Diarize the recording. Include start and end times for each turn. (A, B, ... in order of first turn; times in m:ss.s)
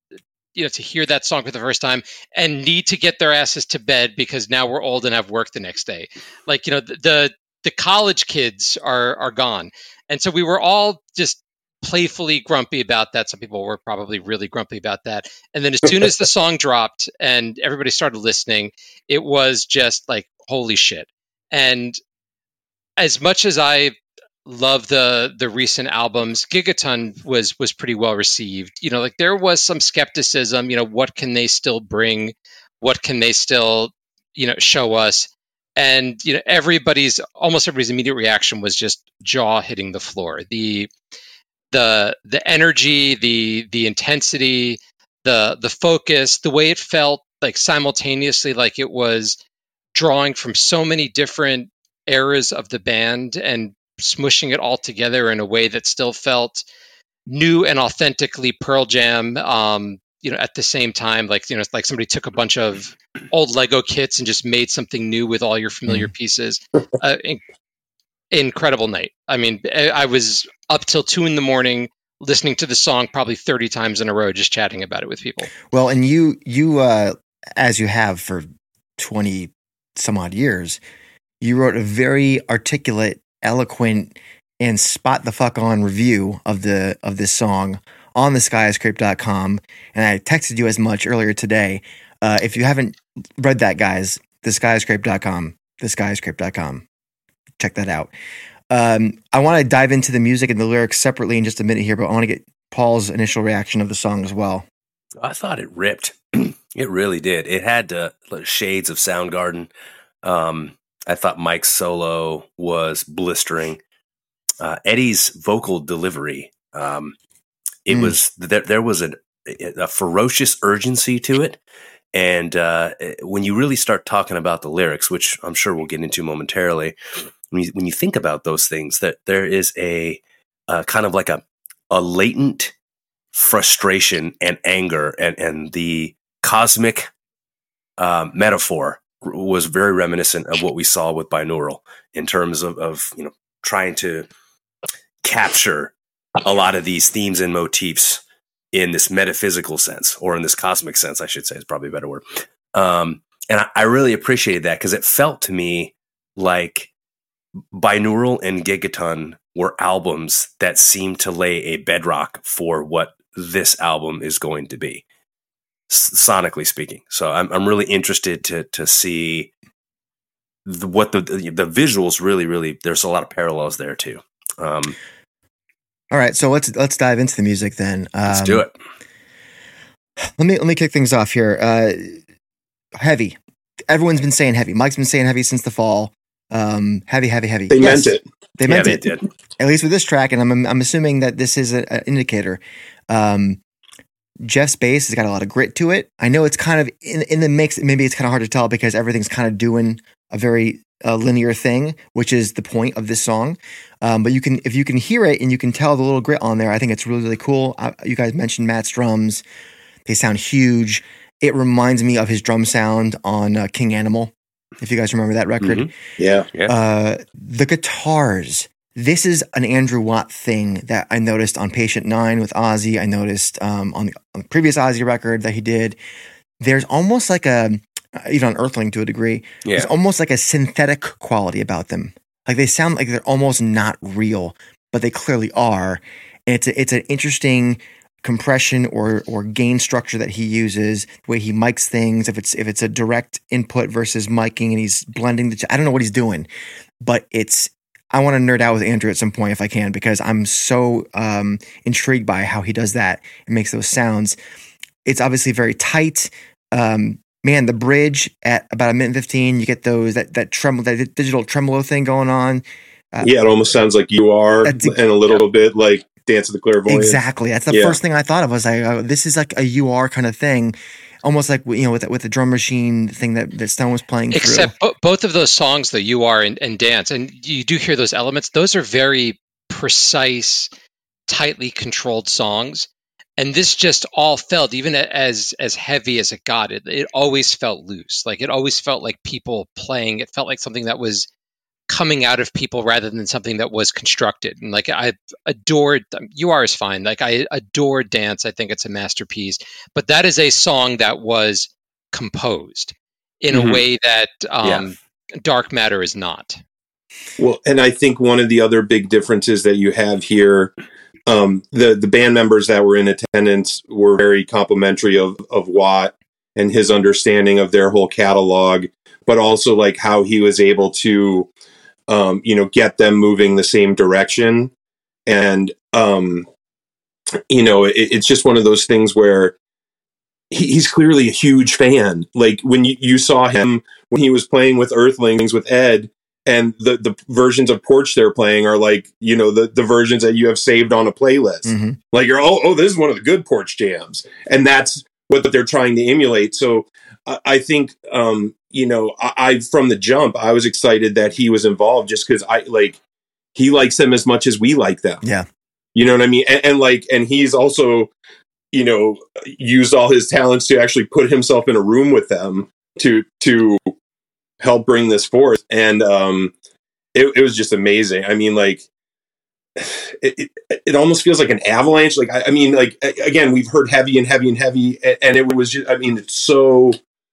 0:00.5-0:22.0 A
0:23.0-0:40.9 A
0:41.7-0:49.4 A
0:49.9-0:56.6 A
0:57.3-1:07.4 A
1:08.3-1:15.5 A
1:15.7-1:18.4 B
1:19.0-1:20.8 B
1:21.4-1:36.8 B
1:37.6-1:38.1 B
1:38.7-1:44.6 B
1:45.2-1:49.7 C
1:50.2-1:53.8 C
1:54.6-1:57.1 C
1:57.9-2:01.6 C
2:02.1-2:06.9 C
2:07.5-2:12.7 C
2:13.3-2:17.1 C
2:18.0-2:24.3 C
2:25.2-2:28.2 C
2:28.7-2:36.9 C
2:37.7-2:45.0 C
2:45.9-2:49.5 C
2:50.6-2:55.0 C
2:56.1-2:58.6 B
2:58.3-2:58.7 C
3:00.4-3:02.2 B
3:03.0-3:03.4 B
3:03.9-3:13.6 B
3:07.7-3:08.2 D
3:08.6-3:09.2 C
3:14.4-3:29.4 B
3:30.1-3:35.9 B
3:35.6-3:35.9 C
3:36.2-3:36.5 D
3:36.7-3:46.0 B
3:46.6-4:06.5 B
3:49.6-3:49.9 C
4:07.0-4:14.4 B
4:15.0-4:23.3 B
4:23.2-4:28.0 D
4:24.6-4:25.0 B
4:26.9-4:34.7 B
4:34.3-4:40.7 A
4:41.3-4:51.3 A
4:51.9-5:06.6 A
5:03.5-5:03.8 C
5:07.4-5:10.7 D
5:11.3-5:21.5 D
5:22.1-5:24.7 D
5:25.2-5:26.5 D
5:27.5-5:29.6 D
5:30.5-5:53.0 D
5:41.6-5:42.0 B
5:53.5-5:55.2 D
5:55.9-5:58.1 D
5:58.7-6:03.9 D
6:04.6-6:06.5 D
6:07.1-6:08.8 D
6:09.8-6:17.0 D